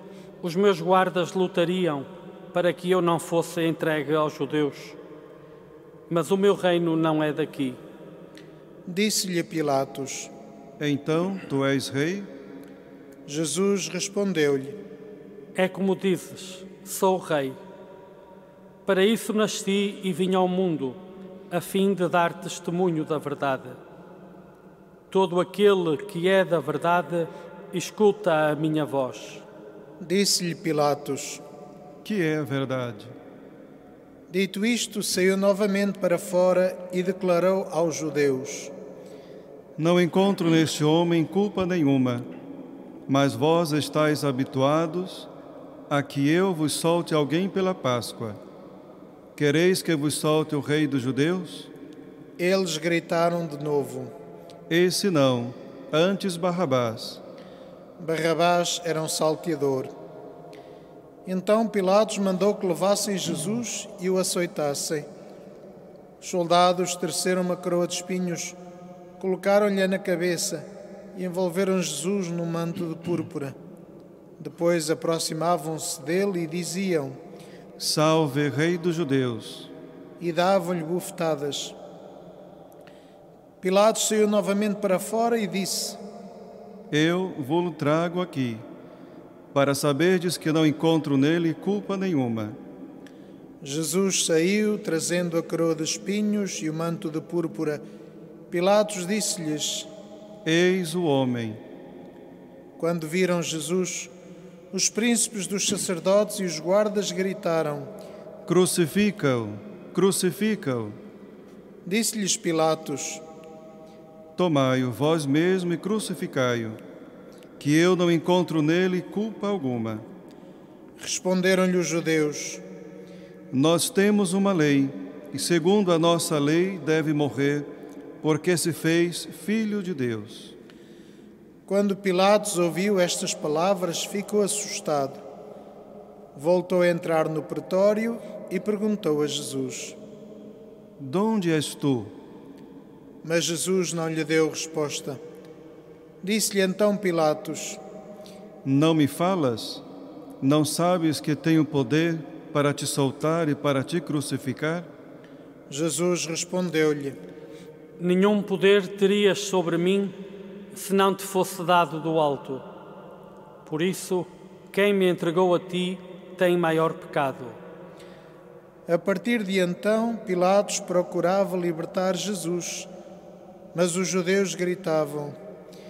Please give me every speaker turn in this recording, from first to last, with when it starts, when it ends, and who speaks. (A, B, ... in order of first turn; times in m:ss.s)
0:00.4-0:05.0 A
0:06.1-0:07.8 A
0:08.8-0:10.3 B
0:10.8-0:12.3 C
0:13.2-0:14.8 B
0:15.5-0:17.6 A
0:18.8-0:21.0 A
0:21.5-0:23.8 A
0:25.1-0:29.4 A
0:30.0-0:31.4 B
0:32.0-0:33.2 C
0:34.3-0:38.7 B
0:39.8-0:42.3 C
0:43.1-0:45.3 C
0:45.9-0:48.4 C
0:49.4-0:51.7 C
0:52.4-0:54.1 B
0:54.7-0:57.2 C
0:58.0-0:59.9 B
1:01.2-1:05.1 B
1:06.2-1:08.6 B
1:09.2-1:13.6 B
1:14.4-1:17.2 B
1:17.8-1:19.7 C
1:20.2-1:21.8 B
1:23.6-1:26.0 B
1:26.9-1:28.7 C
1:29.5-1:32.6 C
1:33.6-1:37.8 B
1:38.5-1:39.9 B
1:40.4-1:41.6 C
1:42.8-1:44.1 B
1:44.7-1:47.9 B
1:48.4-1:51.0 C
1:51.8-1:53.2 B
1:54.4-1:56.8 C
1:57.6-2:00.1 C
2:01.0-2:02.6 B
2:03.5-2:07.7 C
2:08.2-2:10.6 C
2:11.7-2:15.2 B
2:16.3-2:20.0 B
2:21.0-2:22.2 C
2:23.2-2:25.2 B
2:26.2-2:27.8 B
2:28.6-2:29.8 C
2:30.4-2:34.9 C
2:35.7-2:37.2 B
2:38.0-2:40.2 A
2:40.7-2:42.6 A
2:43.6-2:47.6 A
2:48.9-2:52.9 B
2:53.7-2:55.4 B